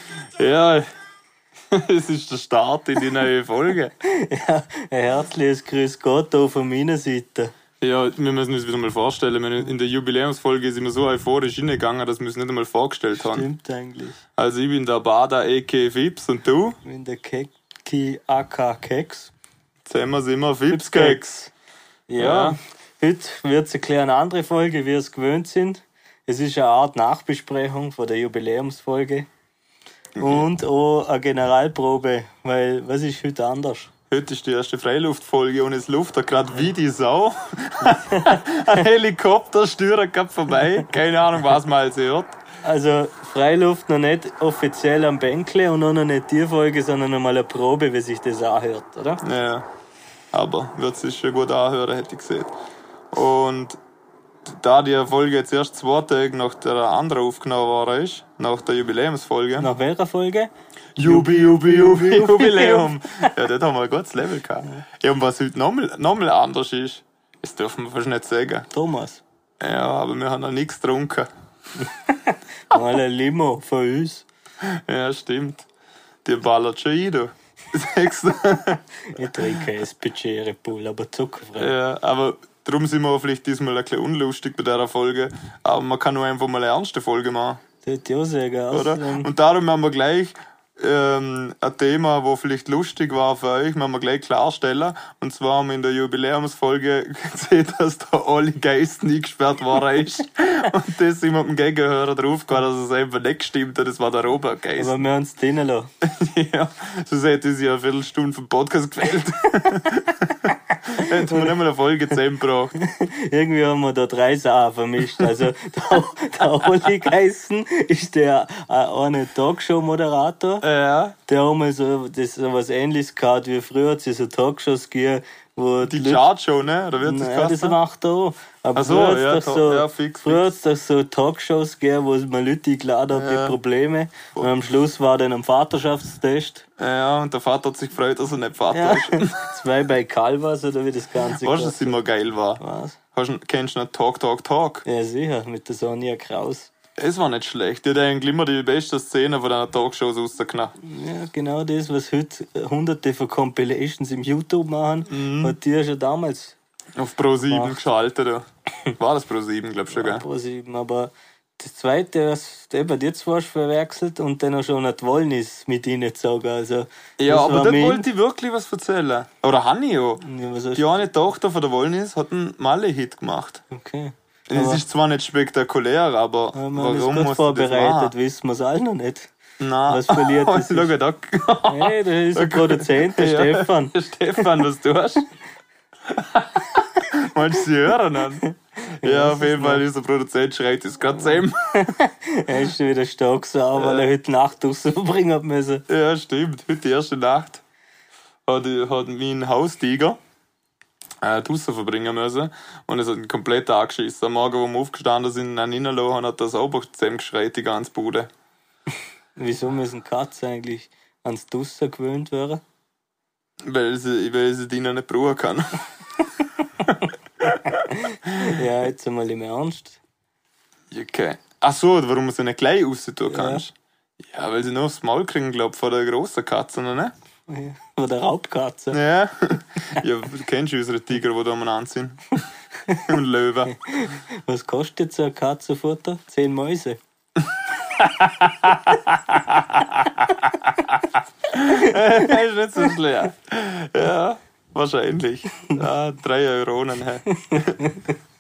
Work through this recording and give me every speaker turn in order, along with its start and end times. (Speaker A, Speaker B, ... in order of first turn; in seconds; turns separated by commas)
Speaker A: 0.3-0.9, Speaker A: 1.7-3.9, Speaker B: 4.0-7.5, Speaker A: 7.8-13.5, Speaker B: 13.1-14.2, Speaker A: 14.4-16.8, Speaker B: 16.8-19.3, Speaker A: 19.9-21.2, Speaker B: 20.7-21.5, Speaker B: 22.1-29.3, Speaker A: 22.2-22.6, Speaker A: 30.2-30.4, Speaker B: 30.2-33.9, Speaker A: 34.1-42.4, Speaker B: 37.9-38.4, Speaker B: 42.6-49.2, Speaker A: 49.2-49.6, Speaker A: 50.3-52.5, Speaker A: 53.1-53.8, Speaker A: 54.5-59.7, Speaker B: 59.6-63.3, Speaker A: 61.0-68.7, Speaker B: 68.7-69.2, Speaker A: 69.6-71.3, Speaker B: 71.8-74.3, Speaker A: 74.6-75.7, Speaker A: 76.2-79.7, Speaker B: 79.1-81.7, Speaker A: 81.6-87.6, Speaker B: 87.8-89.3, Speaker A: 88.7-105.0, Speaker B: 104.8-105.9, Speaker A: 106.0-112.8, Speaker B: 111.0-111.5, Speaker B: 112.8-120.7, Speaker A: 120.6-121.2, Speaker B: 121.3-126.3, Speaker A: 125.8-127.8, Speaker B: 127.0-136.7, Speaker A: 128.8-130.5, Speaker A: 133.1-133.6, Speaker A: 134.4-134.6, Speaker A: 136.8-139.5, Speaker B: 138.7-142.0, Speaker A: 141.2-142.6, Speaker B: 142.6-143.0, Speaker A: 143.1-144.8, Speaker B: 144.8-146.7, Speaker A: 147.0-150.8, Speaker B: 150.8-156.6, Speaker A: 155.1-155.6, Speaker A: 157.0-158.4, Speaker B: 157.5-157.8, Speaker A: 159.0-160.2, Speaker B: 159.9-168.1, Speaker A: 167.2-170.2, Speaker B: 170.2-170.9, Speaker A: 170.8-173.6, Speaker B: 173.7-174.8, Speaker A: 174.5-178.1, Speaker B: 176.6-179.3, Speaker A: 179.6-185.2, Speaker B: 179.9-180.9, Speaker B: 181.7-184.5, Speaker A: 186.1-188.4, Speaker B: 189.0-189.8, Speaker A: 189.0-191.9, Speaker B: 191.7-195.8, Speaker A: 193.8-194.1, Speaker A: 195.9-197.6, Speaker A: 198.4-200.2, Speaker A: 201.2-208.3, Speaker B: 209.4-212.6, Speaker A: 213.6-215.8, Speaker A: 216.9-218.6, Speaker B: 217.8-220.0, Speaker A: 220.9-227.1, Speaker B: 223.3-223.7, Speaker B: 227.5-229.0, Speaker A: 228.9-232.4, Speaker A: 233.0-233.8, Speaker B: 233.7-237.0, Speaker A: 237.8-247.8, Speaker B: 247.3-248.1